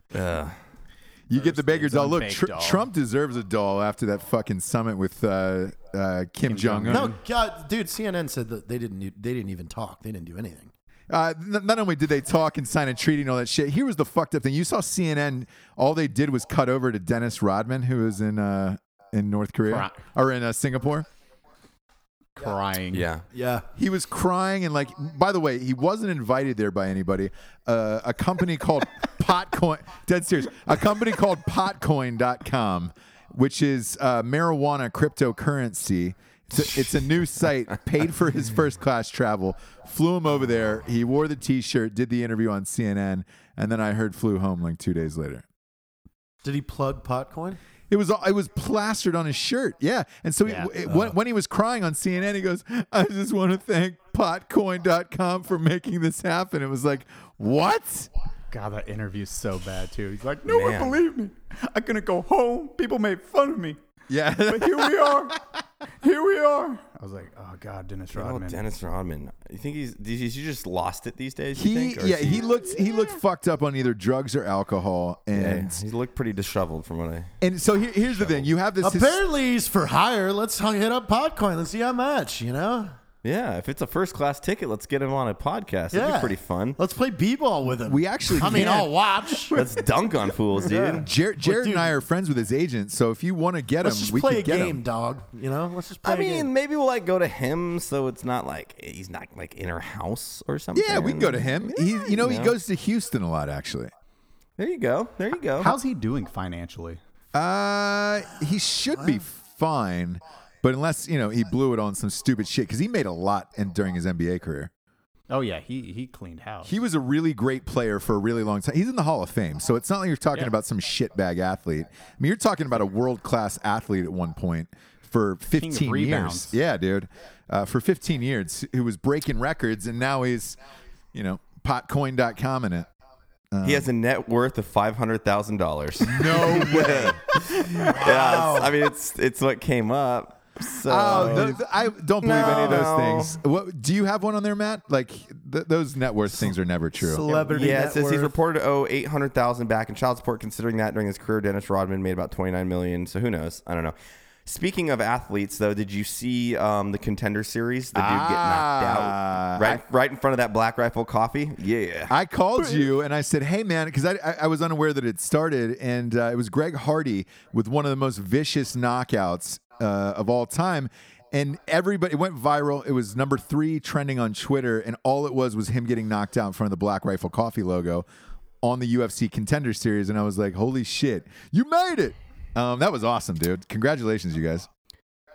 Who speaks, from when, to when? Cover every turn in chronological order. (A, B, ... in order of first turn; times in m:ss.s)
0:00.1-0:00.6 A
0:01.3-0:07.1 B
0:01.3-0:02.9 C
0:06.4-0:07.2 C
0:06.9-0:10.7 D
0:11.1-0:21.0 B
0:19.7-0:20.0 C
0:22.4-0:23.1 C
0:22.9-0:23.2 A
0:23.3-0:23.7 D
0:23.8-0:45.4 B
0:46.4-0:47.6 D
0:47.9-0:58.1 B
0:50.4-0:50.9 C
0:58.5-1:03.8 C
1:00.4-1:01.0 A
1:04.1-1:05.4 B
1:04.5-1:05.4 C
1:06.0-1:08.6 C
1:08.1-1:12.5 A
1:11.6-1:15.8 B
1:15.3-1:17.3 A
1:17.4-1:19.2 B
1:18.2-1:18.5 A
1:18.8-1:23.0 D
1:23.2-1:26.8 A
1:25.9-1:29.5 D
1:27.8-1:28.9 B
1:29.5-1:31.1 A
1:30.6-1:31.9 D
1:31.0-1:34.8 B
1:33.8-1:36.5 D
1:36.0-1:42.5 A
1:40.7-1:43.9 B
1:44.6-1:45.8 A
1:45.6-1:47.0 C
1:47.3-1:54.7 B
1:55.3-1:56.8 C
1:56.6-2:10.6 B
2:05.5-2:06.5 C
2:11.1-2:12.9 B
2:13.5-2:13.9 B
2:13.6-2:21.6 A
2:16.0-2:17.7 B
2:17.7-2:18.8 D
2:20.8-2:27.2 B
2:22.2-2:23.4 A
2:22.4-2:22.8 C
2:27.0-2:28.3 D
2:27.3-2:27.6 C
2:27.5-2:33.9 A
2:34.4-2:42.2 A
2:37.9-2:39.8 B
2:42.1-2:58.0 B
2:58.6-3:04.7 B